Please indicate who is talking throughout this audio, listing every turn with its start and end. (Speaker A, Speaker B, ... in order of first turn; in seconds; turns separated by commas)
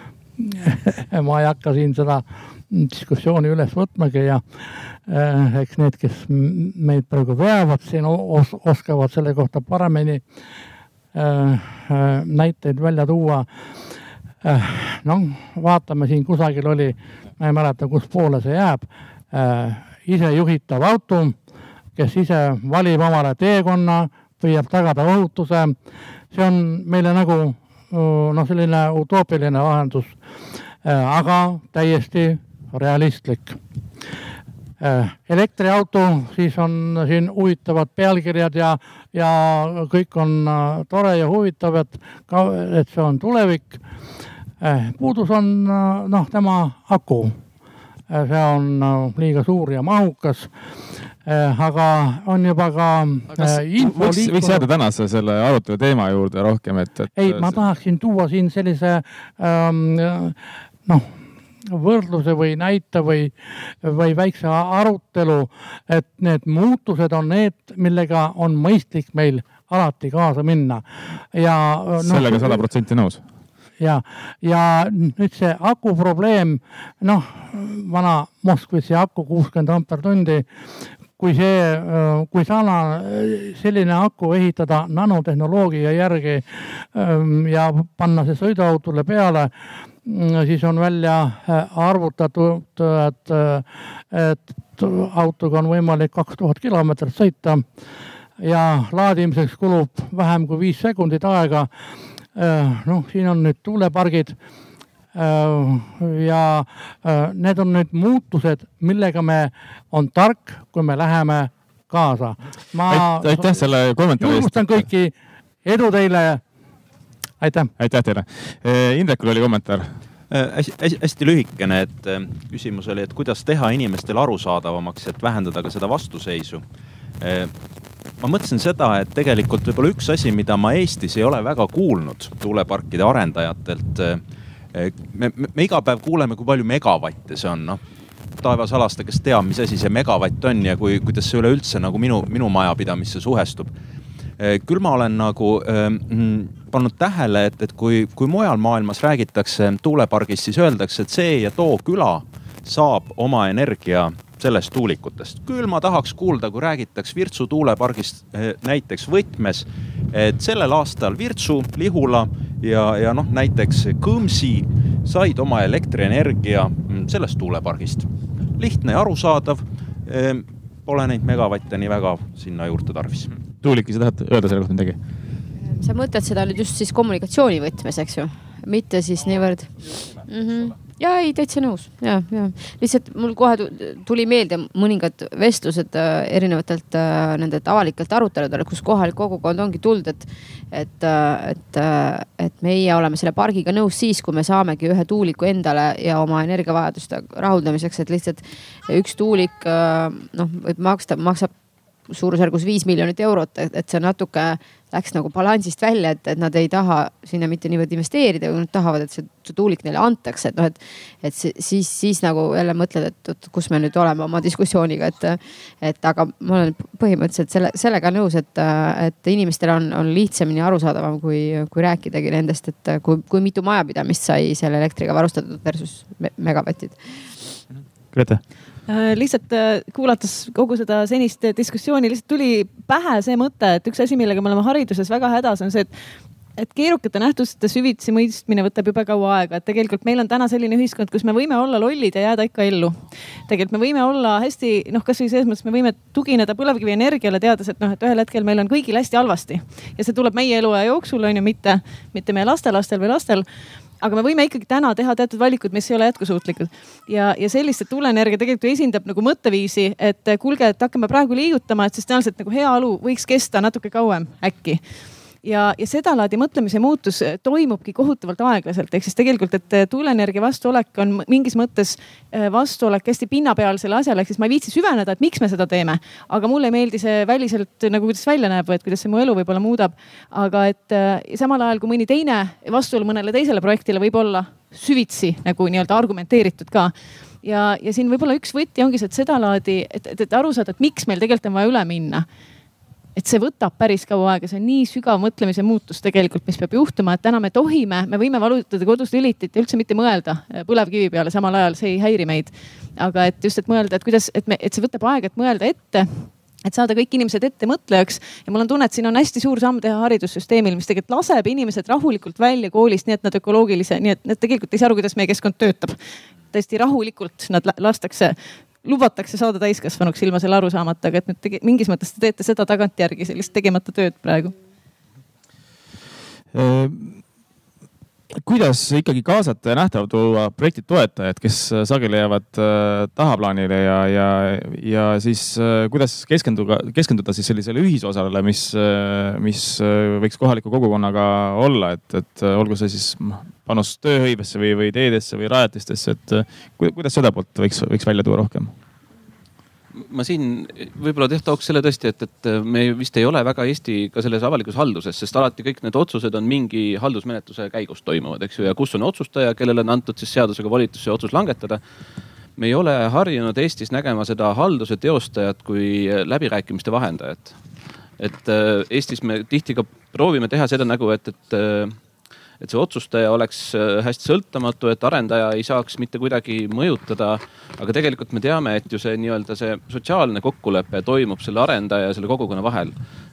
Speaker A: 0.4-4.4, Speaker A: 5.0-10.2, Speaker A: 11.1-13.5, Speaker A: 14.4-21.4, Speaker A: 22.0-25.8, Speaker A: 26.3-30.2, Speaker A: 30.8-33.6, Speaker A: 34.8-43.8, Speaker A: 44.6-47.4, Speaker A: 48.1-50.5, Speaker A: 51.2-54.7, Speaker B: 53.3-57.6, Speaker A: 57.1-61.1, Speaker A: 61.7-72.6, Speaker B: 72.0-73.2, Speaker A: 73.8-80.5, Speaker A: 81.2-89.5, Speaker A: 90.0-97.7, Speaker A: 98.4-101.7, Speaker A: 102.3-104.4, Speaker A: 105.2-116.4, Speaker B: 112.9-114.9, Speaker A: 117.4-117.7, Speaker B: 117.8-119.9, Speaker C: 120.3-126.6, Speaker C: 127.2-127.5, Speaker C: 128.2-134.2, Speaker C: 134.7-137.8, Speaker C: 138.4-143.7, Speaker C: 144.4-173.3, Speaker B: 173.6-175.0, Speaker D: 175.6-201.5, Speaker D: 202.1-227.4, Speaker B: 228.1-228.4, Speaker E: 228.9-235.9, Speaker E: 236.6-253.5, Speaker E: 254.0-264.8, Speaker E: 265.4-292.3, Speaker E: 293.2-316.0, Speaker E: 316.5-324.5, Speaker B: 326.5-327.2, Speaker B: 328.4-348.7, Speaker F: 349.9-361.8, Speaker F: 362.6-367.6, Speaker F: 368.2-372.0, Speaker F: 372.6-382.9